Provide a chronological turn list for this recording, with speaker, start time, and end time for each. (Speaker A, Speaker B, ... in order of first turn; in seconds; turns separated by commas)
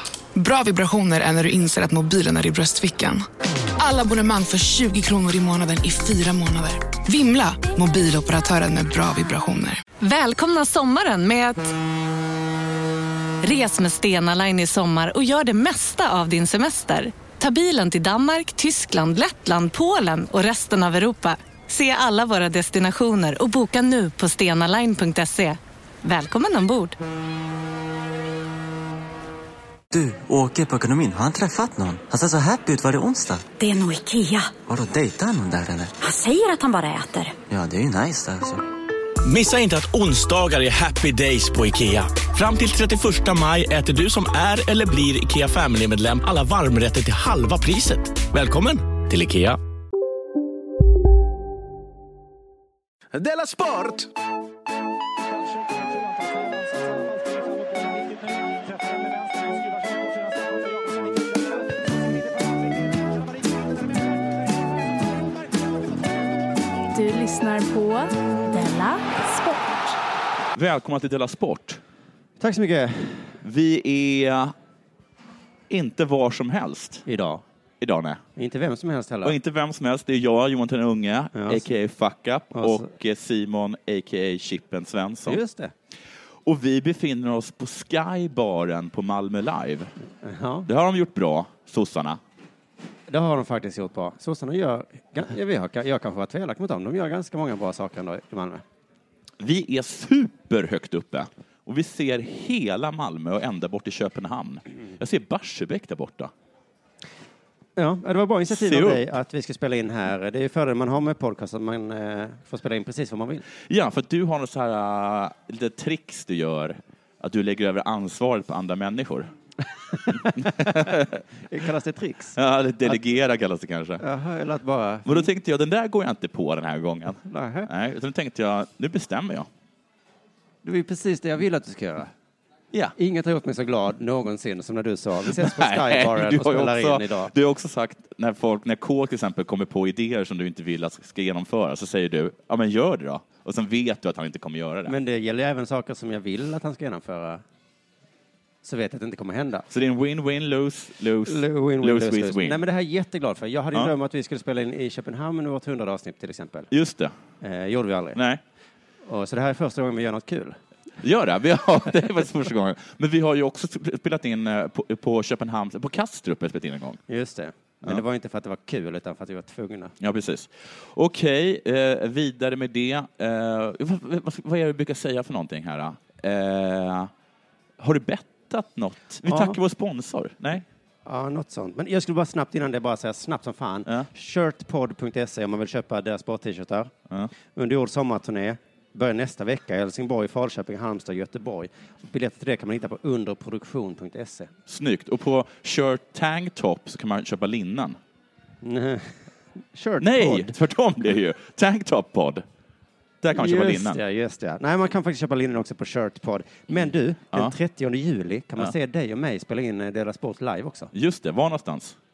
Speaker A: 0.3-3.2, Speaker A: 3.8-9.8, Speaker B: 10.0-11.7, Speaker B: 13.4-27.0, Speaker C: 29.9-33.5, Speaker D: 33.6-34.6, Speaker C: 34.6-36.0, Speaker D: 36.0-37.4, Speaker C: 37.5-38.6, Speaker E: 39.2-49.6, Speaker F: 66.9-70.0, Speaker G: 70.5-71.8, Speaker H: 72.4-73.4, Speaker G: 73.4-74.5, Speaker G: 75.7-77.0, Speaker H: 77.1-77.4, Speaker G: 77.8-78.2, Speaker H: 78.4-79.4, Speaker G: 79.2-85.4, Speaker H: 81.3-81.6, Speaker H: 82.5-82.9, Speaker H: 85.3-85.7, Speaker G: 86.4-89.9, Speaker H: 90.2-90.7, Speaker G: 90.7-92.2, Speaker H: 93.1-98.6, Speaker G: 99.4-106.3, Speaker H: 107.8-113.5, Speaker G: 108.5-109.1, Speaker G: 113.7-119.3, Speaker G: 120.1-121.2, Speaker H: 120.1-120.9, Speaker H: 121.5-123.0, Speaker G: 122.4-124.0, Speaker H: 124.0-125.3, Speaker G: 125.1-129.5, Speaker H: 127.3-127.7, Speaker H: 130.6-132.1, Speaker H: 133.0-137.3, Speaker G: 135.2-145.0, Speaker H: 144.9-147.4, Speaker H: 148.6-149.7, Speaker G: 149.7-152.6, Speaker H: 151.2-156.7, Speaker G: 156.7-157.1, Speaker H: 157.4-158.2, Speaker G: 158.2-158.4, Speaker H: 159.1-160.6, Speaker G: 161.0-167.0, Speaker H: 167.1-169.9, Speaker G: 170.0-177.1, Speaker G: 177.8-180.7, Speaker H: 179.3-179.6, Speaker H: 181.1-186.9, Speaker H: 187.5-194.5, Speaker G: 194.7-198.0, Speaker H: 198.6-199.2, Speaker H: 199.7-200.6, Speaker G: 200.0-202.4, Speaker G: 203.2-204.0, Speaker H: 203.3-210.9, Speaker G: 206.8-207.6, Speaker G: 210.9-212.0